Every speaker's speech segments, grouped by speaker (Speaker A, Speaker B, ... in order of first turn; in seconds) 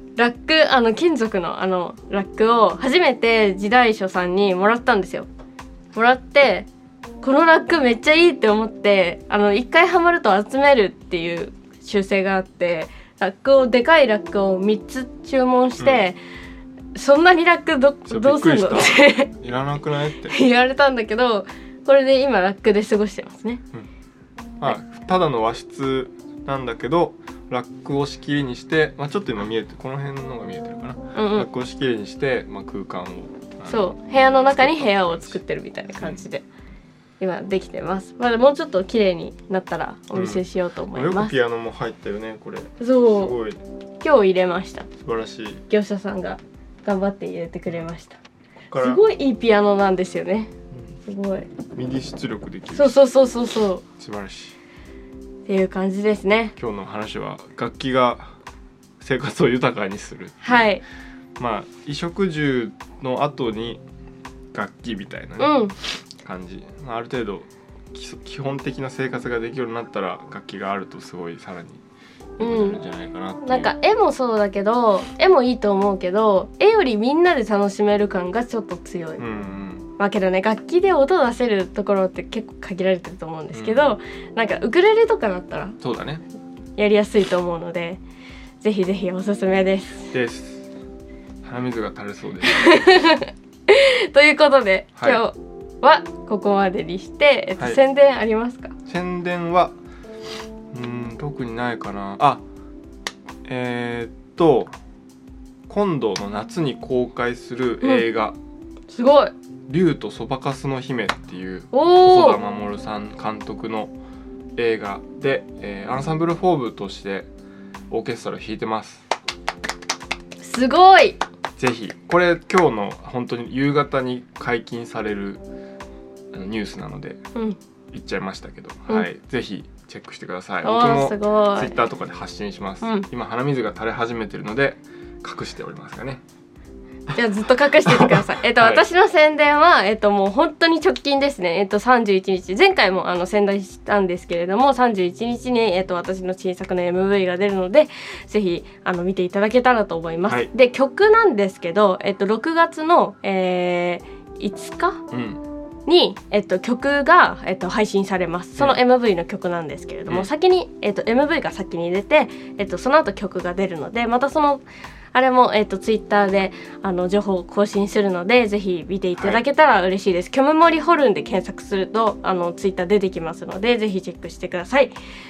Speaker A: 0.2-5.3, 5.9-6.7, 7.2-16.2, 16.9-19.3, 20.2-23.6, 31.1-31.5, 33.7-36.4, 37.2-41.3, 42.8-43.4, 44.0-44.9, 45.7-48.2, 48.8-50.5, 51.0-51.5, 52.7-53.8, 55.5-56.5, 60.4-60.8, 65.4-65.7, 72.4-72.8, 73.4-79.3, 80.0-85.8, 86.8-88.0, 88.6-90.1, 92.5-98.7, 108.9-109.3, 111.7-112.4, 120.4-121.2, 130.6-131.8, 132.8-133.1, 137.1-155.0, 155.8-174.9
Speaker B: 15.8-16.1, 18.1-20.4, 24.6-35.4, 40.1-43.6, 45.0-45.6, 48.7-49.0, 50.7-51.0, 51.7-53.1, 54.0-54.5, 56.6-58.3, 59.0-60.7, 61.4-63.8, 64.5-71.8, 72.4-73.7, 79.2-79.9, 83.5-83.9, 85.8-86.2, 90.1-90.7, 91.4-92.8, 95.0-95.2, 98.8-99.7, 100.7-102.4, 103.4-104.7, 105.7-108.4, 109.7-113.9, 114.5-117.3, 117.9-119.0, 121.6-125.4, 126.3-127.2, 127.9-136.2, 137.8-138.8, 155.1-155.4, 169.2-169.4